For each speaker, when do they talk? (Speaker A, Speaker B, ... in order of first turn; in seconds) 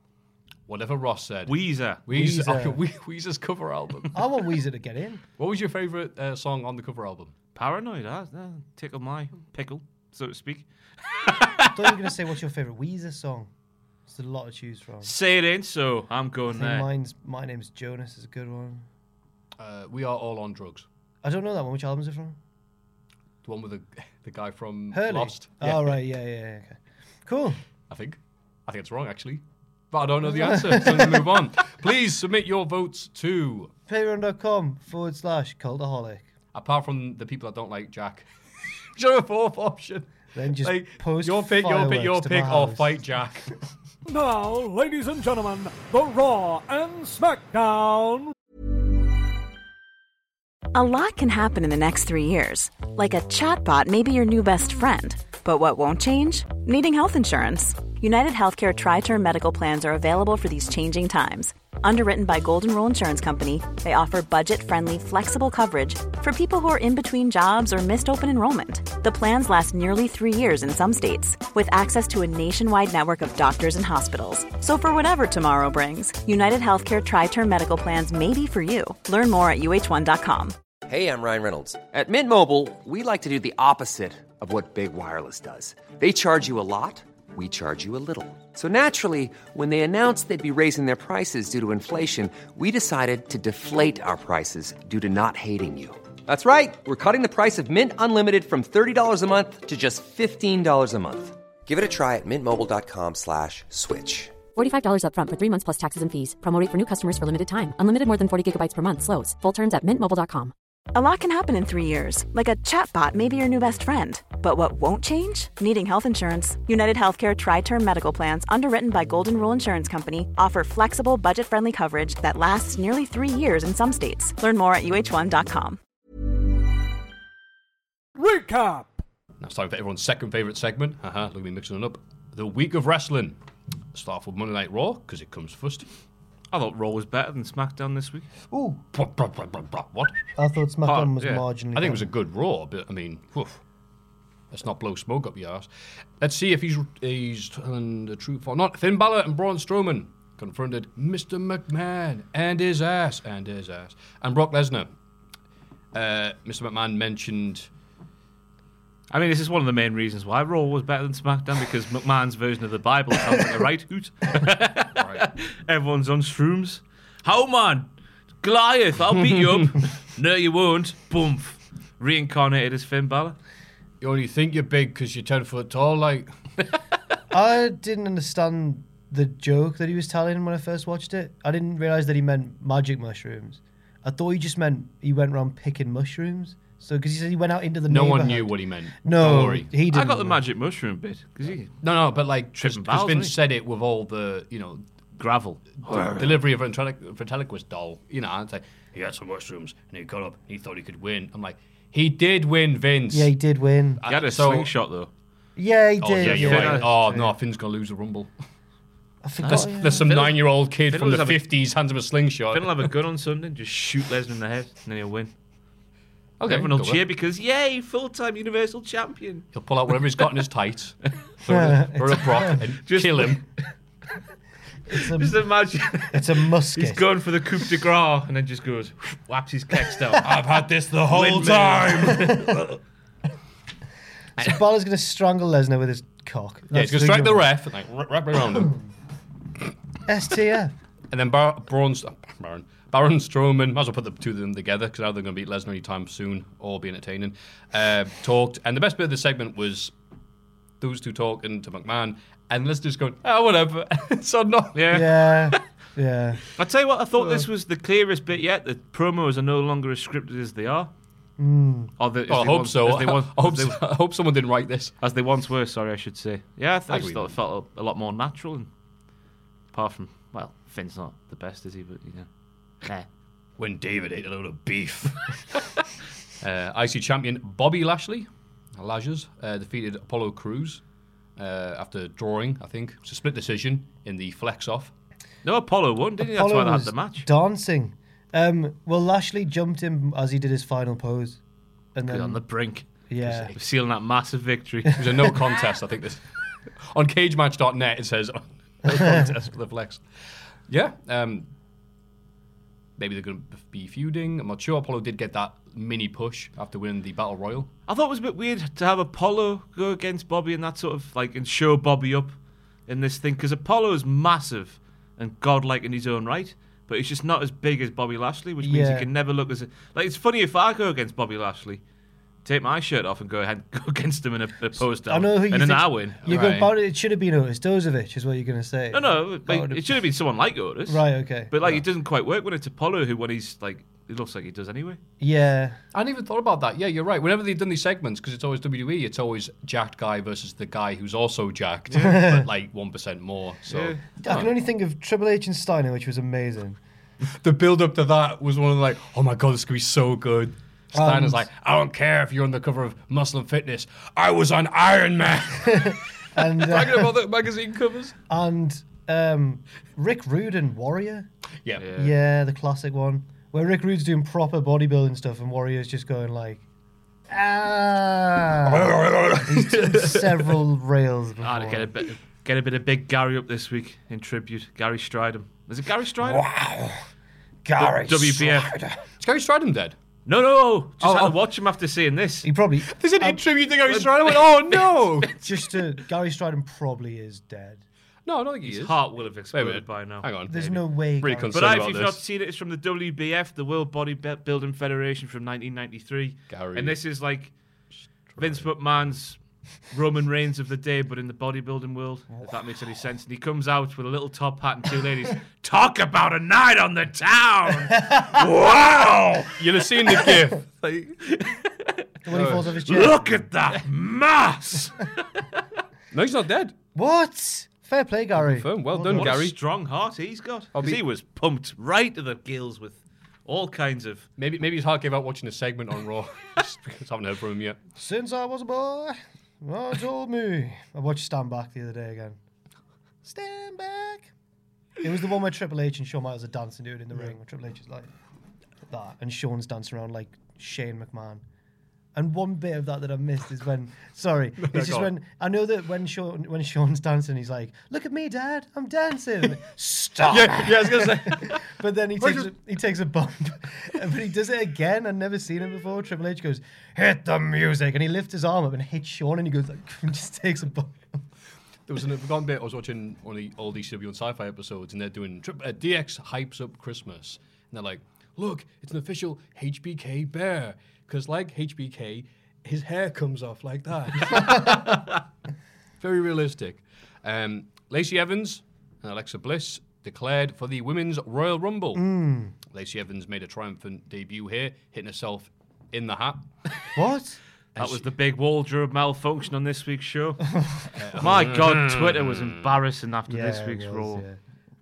Speaker A: 0.7-4.1, 5.4-7.4, 19.6-20.9, 23.4-25.9, 27.9-33.7, 36.5-38.3, 38.9-43.5, 129.4-133.4, 133.9-135.9, 138.9-140.3, 140.9-141.1, 141.7-143.6, 144.5-154.9, 155.9-157.7, 164.9-165.2, 169.2-169.7, 174.0-176.3, 187.9-189.7, 191.8-194.8, 195.8-203.3, 204.0-204.7, 206.0-208.3, 209.4-212.9, 216.4-217.0, 219.5-223.4, 230.2-232.7, 236.7-238.8, 241.1-249.9, 250.8-255.2, 257.2-257.5, 262.3-264.9, 266.9-267.4, 273.6-275.8, 276.4-280.8, 281.4-284.9, 293.2-293.6, 295.0-300.1, 300.7-301.5, 303.0-307.7, 326.2-326.7, 335.9-344.5, 347.2-358.1, 368.7-370.5, 379.2-380.0, 381.0-381.4, 382.9-385.3, 388.2-389.0, 389.5-392.2, 396.5-397.0, 398.3-398.7, 409.6-410.8, 412.3-412.8, 416.1-416.8, 418.4-419.6, 420.7-421.0, 424.4-427.8, 444.6-445.1, 450.3-452.5, 461.9-475.2, 476.0-482.0, 482.6-486.5, 487.8-488.1, 491.0-492.8
Speaker B: 1.5-2.0, 7.6-11.7, 15.0-16.9, 136.5-138.3, 159.1-167.9, 168.4-173.3, 189.9-191.8, 192.6-193.3, 195.2-196.4, 204.1-205.1, 206.2-206.9, 209.4-211.4, 212.5-215.3, 216.5-219.5, 222.8-223.6, 225.2-232.7, 254.8-255.2, 256.6-260.9, 262.0-263.8, 265.0-268.7, 269.7-272.3, 272.8-273.1, 285.4-287.3, 292.1-292.9, 293.5-295.5, 307.9-312.3, 312.9-321.8, 322.4-326.2, 328.9-335.0, 343.7-344.5, 361.8-362.1, 371.4-376.4, 377.8-378.7, 380.3-382.5, 383.9-385.5, 388.6-390.8, 391.5-397.5, 398.4-399.4, 399.9-412.0, 412.8-415.6, 419.1-424.3, 487.8-490.6, 491.2-494.2
Speaker C: 2.1-2.8, 4.1-5.2, 11.7-13.5, 14.1-15.1, 16.5-18.9, 21.2-22.4, 24.9-27.6, 30.3-31.2, 33.9-36.3, 40.4-43.0, 138.5-138.8, 140.4-142.1, 177.3-190.4, 203.1-204.0, 205.6-207.3, 209.2-210.2, 221.5-222.6, 224.9-227.0, 234.4-237.5, 240.1-240.7, 254.9-256.4, 261.4-261.9, 286.2-291.4, 291.9-292.4, 293.1-293.5, 298.9-299.3, 318.6-319.1, 325.1-330.0, 330.9-331.5, 335.2-335.8, 341.9-342.4, 344.2-346.8, 350.9-351.5, 355.7-357.1, 358.3-361.3, 362.0-366.6, 367.3-368.9, 369.4-371.9, 376.2-377.0, 377.7-379.0, 382.4-383.4, 385.4-387.8, 390.5-391.8, 407.9-408.4, 412.3-413.4, 416.9-419.3, 428.0-432.4, 433.2-434.3, 435.0-438.1, 438.9-441.4, 442.1-461.2, 481.9-482.6, 487.0-487.4, 490.5-490.9, 493.3-494.4
Speaker D: 44.1-48.3, 128.2-129.0
Speaker E: 50.7-80.6, 110.9-125.8
Speaker F: 80.9-104.4
Speaker G: 104.5-110.5